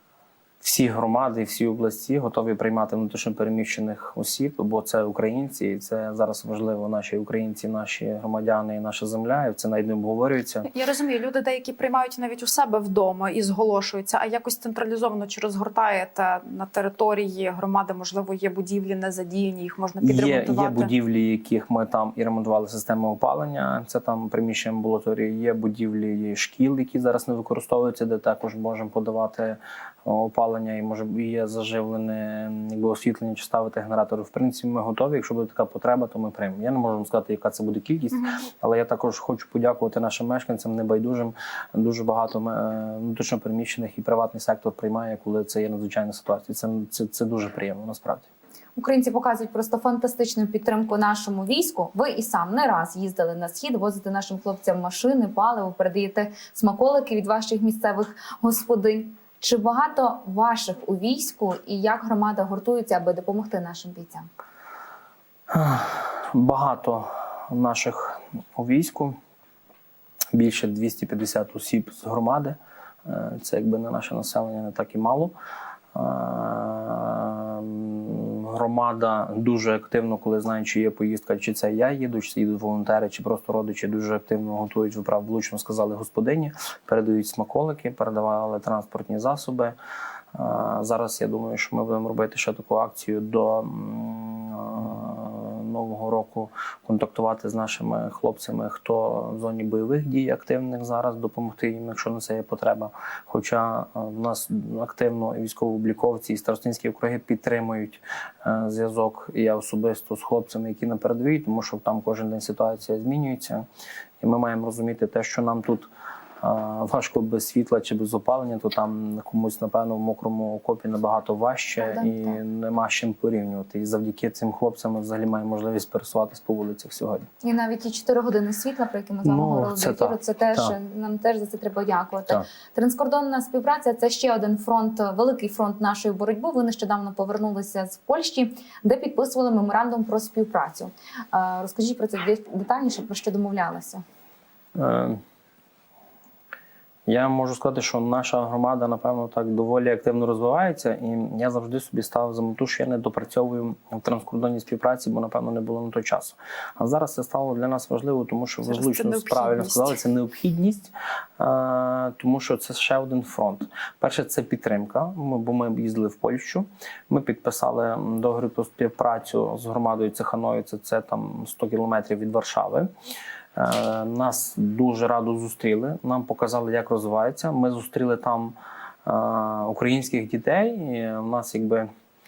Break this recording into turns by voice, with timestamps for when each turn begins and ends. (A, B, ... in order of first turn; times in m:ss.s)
0:00.6-0:10.7 A
0:10.7-0:20.9 B
0:20.0-0:48.3 A
0:38.1-0:38.4 B
0:48.8-1:04.3 C
1:05.5-1:09.2 A
1:10.3-1:15.3 A
1:15.9-1:29.7 A
1:30.3-1:53.6 A
1:54.2-1:55.9 A
1:56.4-2:07.2 A
2:01.8-2:02.4 C
2:07.4-2:24.0 C
2:09.2-2:10.8 A
2:24.8-2:25.2 A
2:27.1-2:52.9 A
2:38.7-2:39.9 B
2:53.6-3:01.9 A